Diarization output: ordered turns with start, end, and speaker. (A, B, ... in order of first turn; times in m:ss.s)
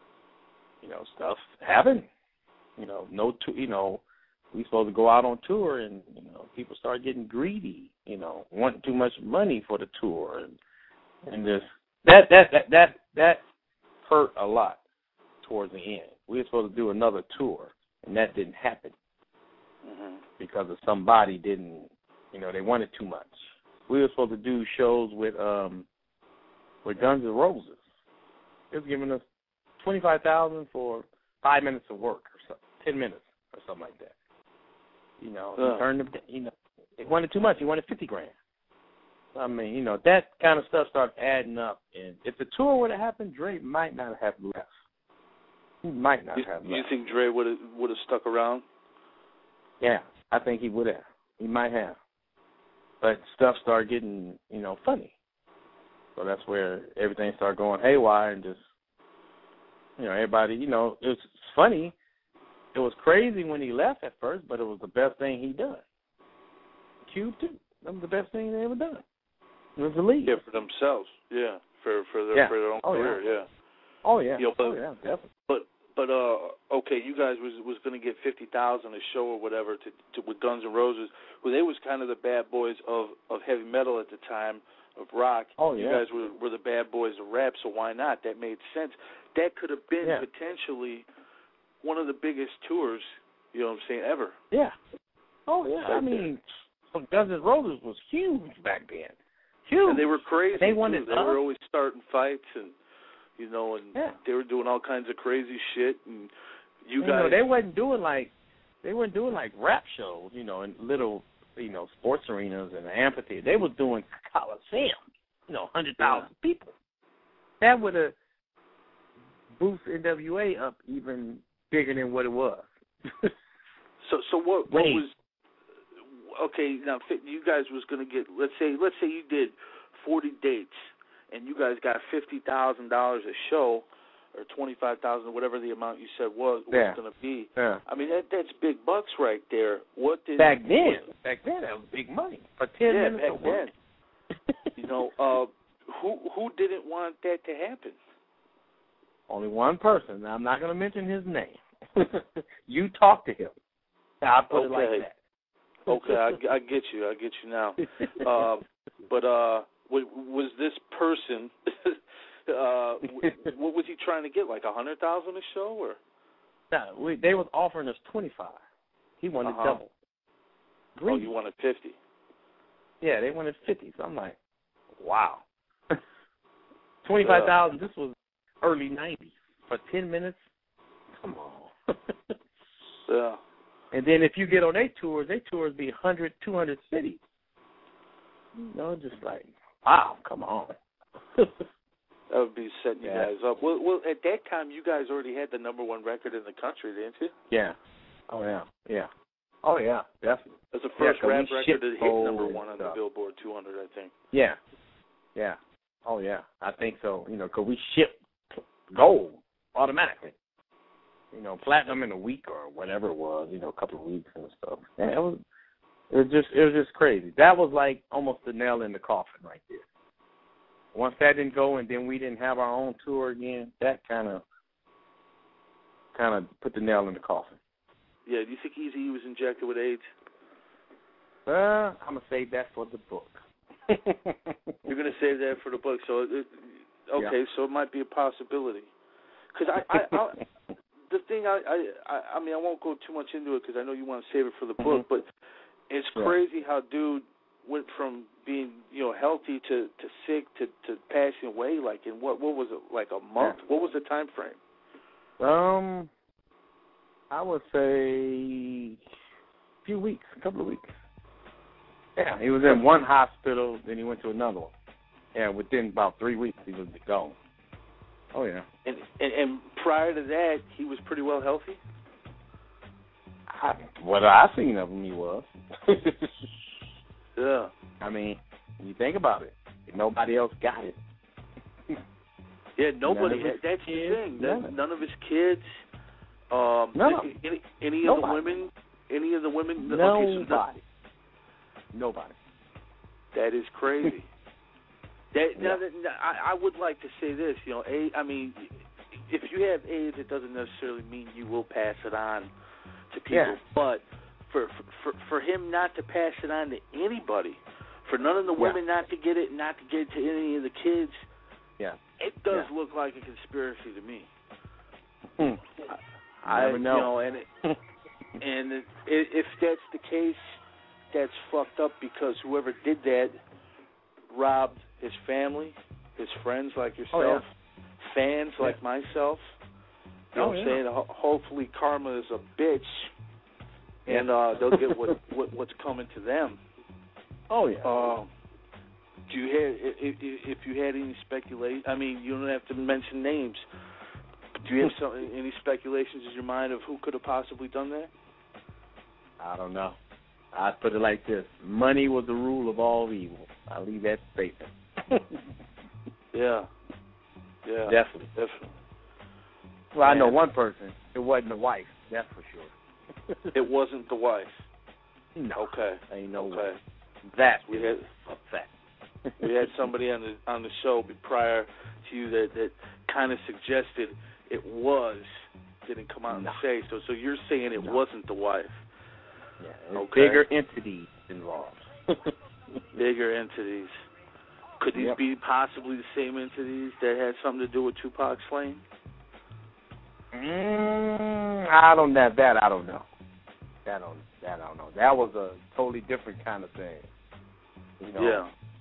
0:00.8-0:02.1 A
0:02.8-0:10.6 A
0:11.2-0:13.4 A
0:14.0-0:14.8 A
0:15.4-0:19.0 A
0:19.8-0:20.2 B
0:20.4-0:25.9 A
0:26.8-0:27.8 A
0:28.7-0:29.2 A
0:29.8-0:34.1 A
0:35.2-0:38.3 A
0:35.6-0:35.8 B
0:39.3-0:44.7 A
0:45.8-0:46.9 A
0:46.3-0:48.6 B
0:49.8-0:52.0 A
0:53.0-0:55.1 A
0:56.2-0:58.6 A
1:00.0-1:02.0 A
1:02.7-1:05.8 A
1:07.0-1:09.0 A
1:09.8-1:10.4 A
1:10.2-1:13.5 B
1:12.3-1:13.2 A
1:14.0-1:15.3 A
1:14.4-1:14.8 B
1:15.5-1:31.1 B
1:25.6-1:26.0 A
1:31.8-1:34.3 B
1:35.5-1:39.1 A
1:35.8-1:36.3 B
1:39.7-1:41.4 A
1:39.8-1:42.8 B
1:43.4-1:46.3 B
1:46.8-1:47.4 B
1:47.0-1:48.3 A
1:48.8-1:56.7 A
1:56.0-1:56.3 B
1:57.6-1:58.2 A
1:59.6-2:02.7 A
2:04.0-2:05.1 B
2:04.7-2:05.0 A
2:06.0-2:10.8 B
2:11.3-2:21.1 B
2:16.7-2:17.0 A
2:17.6-2:17.8 A
2:20.4-2:23.7 A
2:22.9-2:23.7 B
2:24.8-2:28.0 B
2:29.3-2:33.5 A
2:34.2-2:35.2 A
2:34.5-2:35.0 B
2:35.9-2:46.0 B
2:35.9-2:36.2 A
2:46.7-2:48.6 A
2:49.2-2:49.9 A
2:49.4-2:49.8 B
2:51.0-2:51.3 A
2:51.1-2:52.0 B
2:53.0-2:54.4 A
2:55.0-2:56.0 A
2:57.0-3:00.4 A
2:57.2-2:57.5 B
3:01.2-3:01.7 A
3:03.1-3:03.4 B
3:03.9-3:07.2 A
3:08.6-3:10.8 A
3:12.3-3:17.3 B
3:13.0-3:13.3 A
3:17.5-3:17.8 A
3:18.3-3:19.1 A
3:19.6-3:23.0 A
3:20.7-3:24.1 B
3:24.3-3:24.6 A
3:25.3-3:30.3 A
3:31.3-3:35.4 A
3:36.1-3:39.8 A
3:40.9-3:44.4 A
3:46.1-3:47.6 A
3:48.3-3:50.0 B
3:51.5-3:54.7 A
3:54.9-3:58.9 B
3:59.5-4:00.4 B
4:01.1-4:05.3 B
4:05.9-4:14.6 B
4:15.4-4:16.1 A
4:17.3-4:19.0 A
4:19.8-4:20.9 A
4:22.2-4:24.7 A
4:25.3-4:27.4 A
4:28.3-4:28.6 A
4:28.8-4:31.8 B
4:33.5-4:36.5 A
4:37.4-4:37.7 B
4:38.0-4:41.0 A
4:42.8-4:45.7 B
4:43.1-4:44.7 A
4:46.5-4:50.6 B
4:46.9-4:47.3 A
4:48.0-4:48.6 A
4:49.8-4:50.8 A
4:51.9-4:52.4 A
4:53.3-4:54.3 B
4:55.3-5:02.5 B
5:03.1-5:11.2 B
5:03.3-5:03.6 A
5:12.2-5:14.3 B
5:15.4-5:15.6 A
5:15.8-5:17.4 B
5:16.5-5:17.1 A
5:18.4-5:20.6 B
5:21.1-5:23.3 B
5:24.3-5:27.5 B
5:27.1-5:27.4 A
5:28.0-5:29.4 B
5:30.3-5:33.1 B
5:30.4-5:30.8 A
5:34.1-5:36.6 B
5:34.1-5:35.0 A
5:37.5-5:38.2 A
5:37.8-5:38.3 B
5:39.3-5:43.6 B
5:44.6-5:48.1 B
5:49.4-5:50.0 A
5:50.5-5:55.4 A
5:56.3-5:56.7 B
5:57.6-5:58.7 B
5:57.9-5:58.3 A
5:59.9-6:02.7 A
6:00.0-6:00.4 B
6:03.3-6:03.6 A
6:03.5-6:04.7 B
6:05.4-6:06.7 A
6:05.6-6:06.8 B
6:07.3-6:08.7 A
6:07.7-6:08.1 B
6:09.4-6:18.8 B
6:16.3-6:16.6 A
6:19.6-6:22.3 A
6:19.9-6:20.4 B
6:22.9-6:24.0 B
6:24.8-6:28.8 B
6:24.9-6:25.2 A
6:30.3-6:33.1 A
6:33.9-6:37.1 A
6:38.0-6:38.5 A
6:38.2-6:38.5 B